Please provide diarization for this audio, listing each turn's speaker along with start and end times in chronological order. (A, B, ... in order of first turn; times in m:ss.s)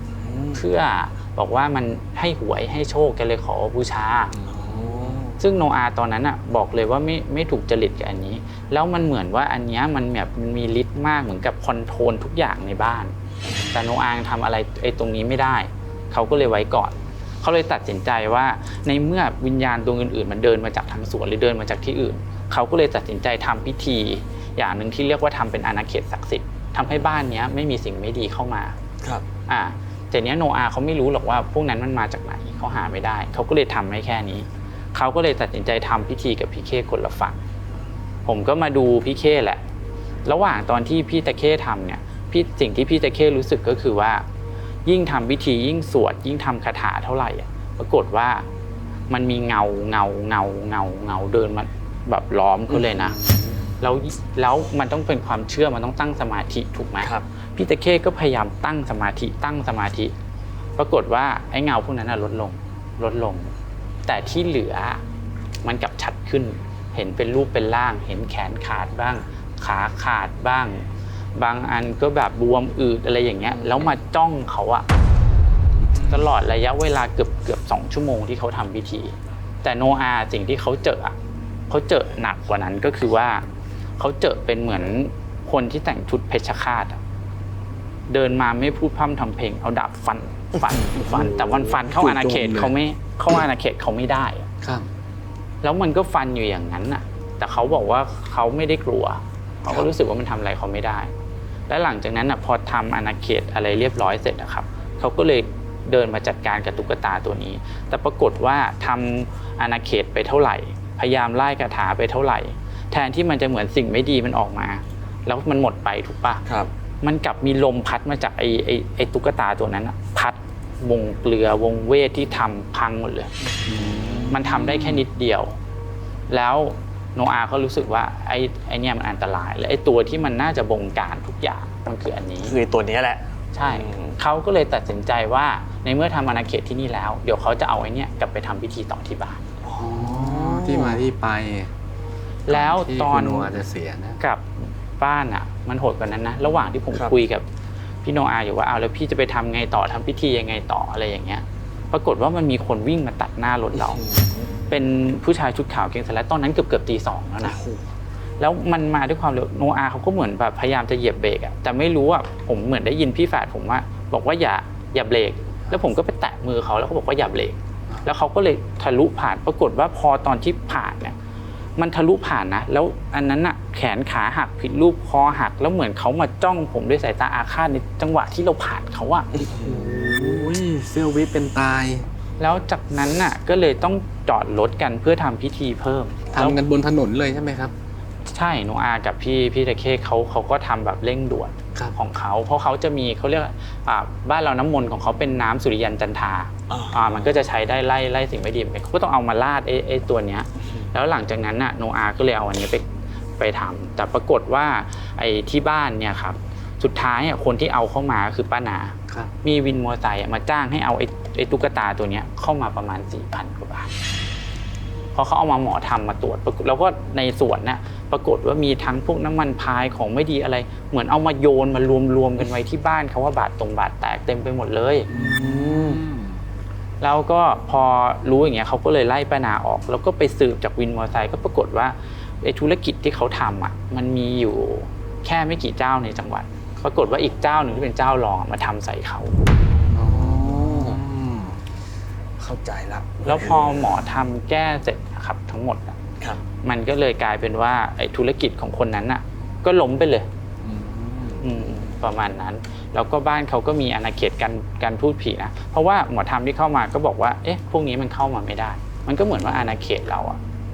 0:00.2-0:00.6 A
0:00.5-0:04.3 B
0:04.3-0:05.3 C
0:04.5-0:05.4 A
0:05.4-0:28.8 B
0:13.4-0:13.8 A
0:29.5-0:37.4 B
0:38.3-0:39.6 B
0:40.3-0:44.2 B
0:44.9-0:48.5 B
0:49.1-0:53.2 B
0:52.7-0:53.4 A
0:53.8-1:00.1 B
1:00.8-1:03.5 B
1:04.1-1:05.0 B
1:05.6-1:10.9 B
1:11.4-1:14.8 B
1:13.5-1:13.8 A
1:15.8-1:16.3 C
1:16.1-1:21.2 B
1:21.7-1:23.4 B
1:24.0-1:27.0 B
1:28.1-1:34.5 B
1:30.9-1:32.8 C
1:34.6-1:34.9 C
1:35.6-1:41.1 B
1:41.7-1:56.4 B
1:57.0-2:03.3 B
2:03.6-2:05.0 C
2:03.7-2:04.2 A
2:04.3-2:05.6 B
2:06.3-2:12.6 B
2:12.4-2:14.2 A
2:13.5-2:19.4 B
2:19.6-2:21.7 C
2:19.7-2:21.0 A
2:22.5-2:23.6 B
2:22.5-2:24.2 C
2:24.2-2:24.4 B
2:25.0-2:27.4 B
2:28.0-2:34.0 B
2:33.8-2:34.5 A
2:34.7-2:37.6 B
2:37.4-2:37.8 A
2:38.4-2:51.2 B
2:51.8-2:59.5 B
2:59.3-3:00.5 A
2:59.5-3:02.1 C
3:02.4-3:06.6 B
3:06.3-3:07.7 C
3:08.3-3:22.8 B
3:16.7-3:17.4 A
3:23.4-3:33.9 B
3:35.1-3:45.1 B
3:45.1-3:46.4 C
3:45.1-3:46.0 A
3:47.0-3:59.4 B
3:59.9-4:01.6 C
4:00.2-4:01.0 A
4:02.4-4:04.0 A
4:03.2-4:06.0 B
4:06.6-4:10.3 B
4:10.6-4:11.5 C
4:11.4-4:20.4 B